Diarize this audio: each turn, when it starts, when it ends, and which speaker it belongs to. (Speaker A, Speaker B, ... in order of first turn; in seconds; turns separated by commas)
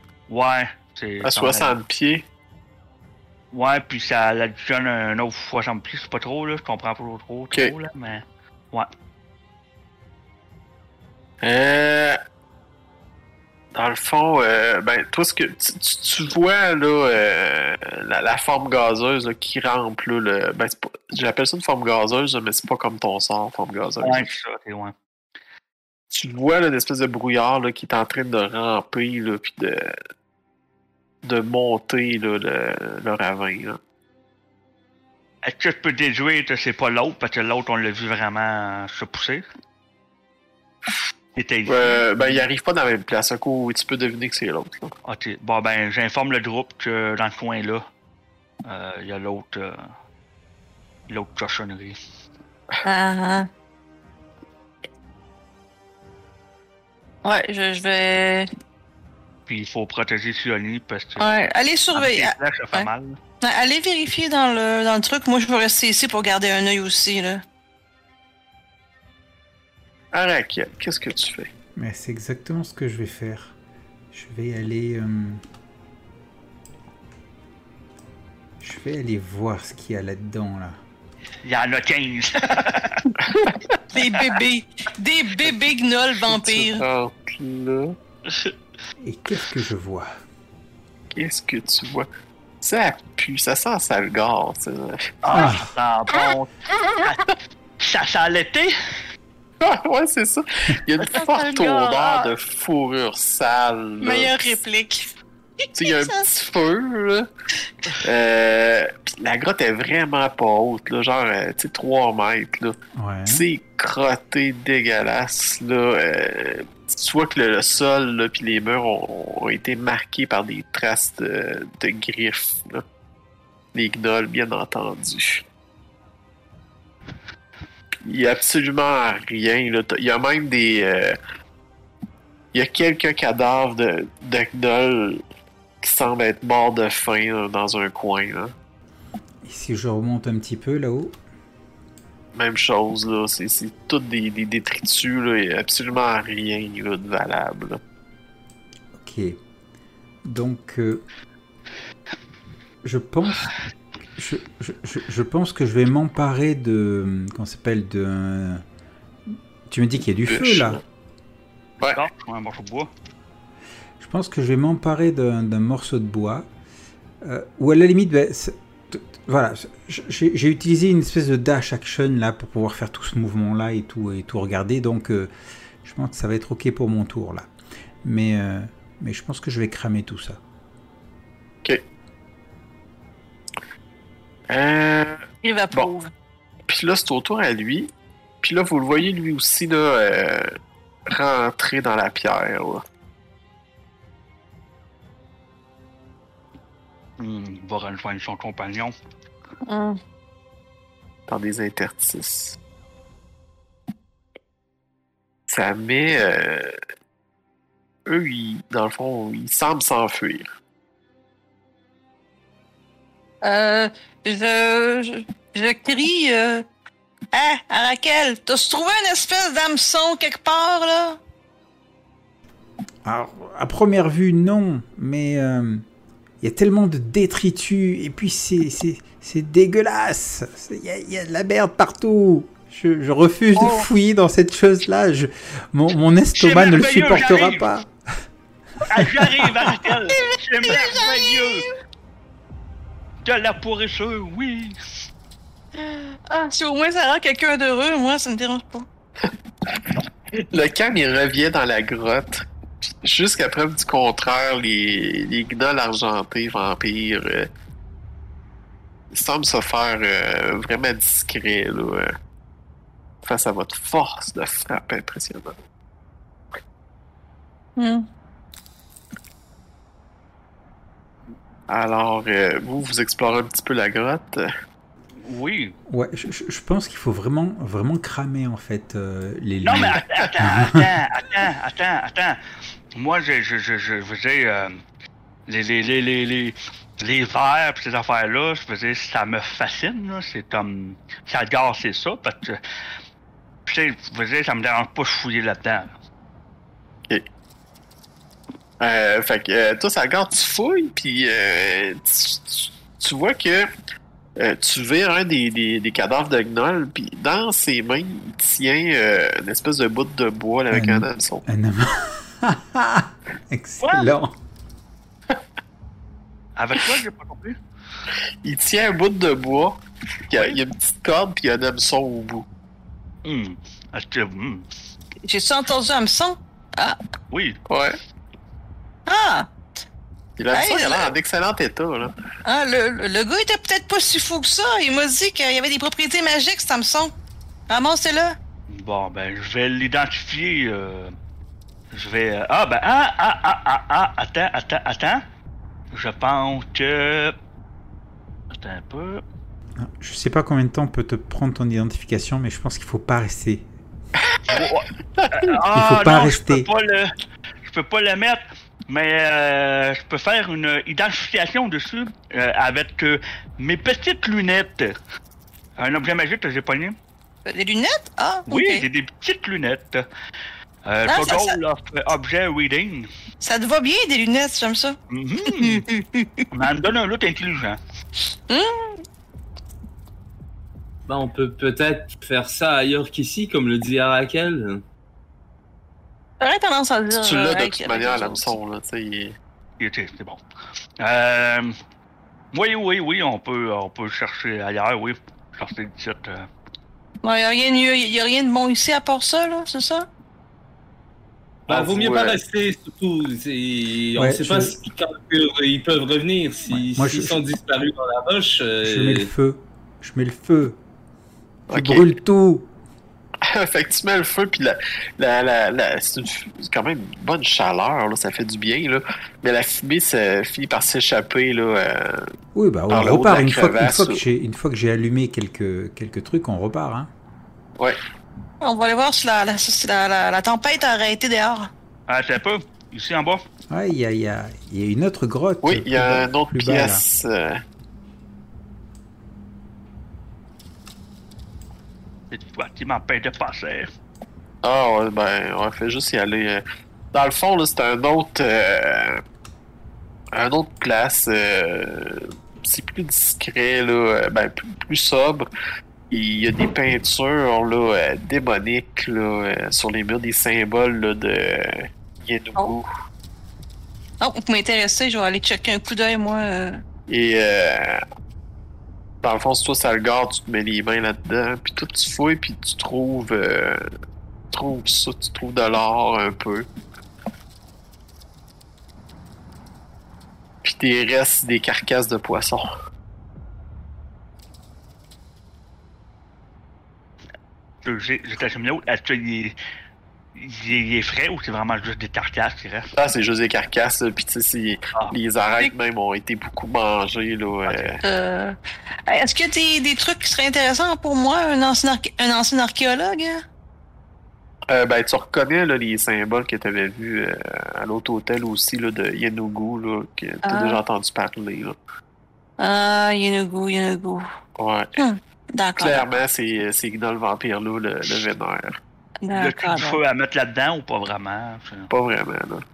Speaker A: 0.3-1.8, Speaker B: 1.2-2.2, Speaker A: 3.5-8.9, Speaker B: 11.4-12.2, Speaker B: 13.7-24.3, Speaker A: 24.0-24.9, Speaker B: 26.1-30.0, Speaker B: 31.2-33.8, Speaker A: 35.4-39.4, Speaker A: 41.4-42.5, Speaker B: 41.7-44.9, Speaker A: 45.1-47.9, Speaker A: 48.7-49.9, Speaker A: 51.1-52.0, Speaker C: 52.8-53.5, Speaker C: 57.2-58.5, Speaker A: 59.5-61.3, Speaker C: 61.2-62.9, Speaker A: 62.0-63.2, Speaker C: 63.4-67.4, Speaker B: 70.1-71.5, Speaker D: 71.8-73.5, Speaker D: 74.1-75.4, Speaker D: 78.6-80.8, Speaker A: 81.4-83.2, Speaker B: 83.3-83.6, Speaker C: 83.9-86.9, Speaker B: 86.3-88.0, Speaker D: 89.0-90.1, Speaker B: 91.1-92.1, Speaker B: 92.6-95.4, Speaker A: 95.2-98.7, Speaker D: 95.3-95.7, Speaker B: 99.6-104.5, Speaker C: 101.0-102.3, Speaker C: 104.0-105.0, Speaker C: 105.7-106.3, Speaker B: 105.8-107.3, Speaker B: 108.0-122.8, Speaker D: 112.9-113.5, Speaker B: 123.8-125.5, Speaker B: 128.1-131.2, Speaker B: 132.5-135.2, Speaker B: 135.8-138.5, Speaker D: 139.4-141.2, Speaker B: 142.3-147.8, Speaker D: 148.9-149.4, Speaker D: 150.2-151.0, Speaker D: 152.8-153.5, Speaker D: 154.2-158.6, Speaker D: 159.3-160.8, Speaker B: 160.3-160.8, Speaker A: 161.9-162.9, Speaker D: 164.0-166.5, Speaker D: 167.2-175.3, Speaker D: 175.8-177.5, Speaker D: 178.0-180.4, Speaker B: 184.5-185.9, Speaker C: 185.4-186.1, Speaker B: 186.7-187.9, Speaker B: 188.4-190.5, Speaker B: 191.1-192.8, Speaker A: 197.2-198.9, Speaker C: 199.7-200.0, Speaker B: 201.3-202.6, Speaker B: 205.5-206.7, Speaker B: 208.1-210.5, Speaker C: 213.4-216.7, Speaker C: 217.3-221.2, Speaker D: 223.1-225.8, Speaker D: 226.4-237.9, Speaker C: 233.6-233.9, Speaker A: 236.3-237.7, Speaker A: 238.8-241.7, Speaker C: 239.6-241.7, Speaker A: 243.2-244.8, Speaker C: 245.8-248.9, Speaker B: 250.3-252.5, Speaker B: 253.0-257.5, Speaker B: 259.1-262.1, Speaker B: 263.2-265.6, Speaker C: 267.8-268.1, Speaker B: 271.7-274.5, Speaker A: 275.2-275.8, Speaker D: 275.9-280.8, Speaker A: 279.6-282.4, Speaker A: 283.0-284.8, Speaker A: 285.5-292.6, Speaker A: 293.7-295.9, Speaker B: 298.8-303.7, Speaker B: 304.4-311.4, Speaker D: 310.7-314.4, Speaker A: 313.8-314.1, Speaker A: 316.6-317.6, Speaker B: 318.4-319.8, Speaker B: 320.3-322.5, Speaker A: 320.3-320.6, Speaker A: 323.2-324.7, Speaker C: 325.3-327.0, Speaker A: 327.3-327.6, Speaker B: 327.7-328.0, Speaker C: 329.1-329.5, Speaker B: 330.4-332.1, Speaker C: 330.5-331.1, Speaker C: 332.5-337.1, Speaker C: 337.7-338.4, Speaker A: 338.7-341.2, Speaker A: 341.9-345.2, Speaker A: 345.9-347.4, Speaker A: 348.5-349.2, Speaker D: 349.8-353.7, Speaker B: 354.4-354.6, Speaker A: 354.5-357.1, Speaker D: 355.7-356.7, Speaker A: 357.6-365.0, Speaker A: 365.8-367.0, Speaker C: 367.5-368.9, Speaker A: 368.5-370.1, Speaker A: 370.9-373.1, Speaker C: 371.1-371.6, Speaker C: 373.4-376.5, Speaker A: 375.1-375.9, Speaker A: 376.5-377.8, Speaker C: 378.5-379.0, Speaker E: 381.1-384.8, Speaker C: 386.4-388.6, Speaker B: 387.1-389.4, Speaker A: 389.8-390.4, Speaker A: 391.0-391.8, Speaker A: 392.5-396.5, Speaker C: 397.2-400.1, Speaker E: 401.7-409.3, Speaker B: 401.7-402.4, Speaker D: 404.2-404.8, Speaker D: 406.7-407.4, Speaker D: 408.8-410.8, Speaker B: 411.7-412.1, Speaker D: 411.7-412.7, Speaker B: 413.5-422.3, Speaker D: 422.5-427.1, Speaker B: 422.9-424.2, Speaker C: 428.6-431.7, Speaker A: 432.1-433.4, Speaker D: 433.7-437.0, Speaker B: 435.6-437.6, Speaker A: 442.3-443.9, Speaker B: 444.6-449.2, Speaker B: 450.3-455.5, Speaker B: 456.1-462.9, Speaker C: 464.2-466.8, Speaker B: 467.1-468.0, Speaker B: 469.2-473.8, Speaker B: 474.5-476.7, Speaker B: 480.6-482.7, Speaker A: 487.8-489.6, Speaker A: 490.4-492.9, Speaker B: 492.9-498.0, Speaker A: 497.7-497.9, Speaker C: 498.0-498.6, Speaker C: 499.1-503.4, Speaker B: 504.7-511.8, Speaker C: 510.4-510.8, Speaker C: 512.6-514.2, Speaker B: 514.6-515.0, Speaker C: 515.0-516.2, Speaker B: 515.8-518.8, Speaker C: 519.2-520.0, Speaker A: 519.3-521.9, Speaker B: 521.9-522.6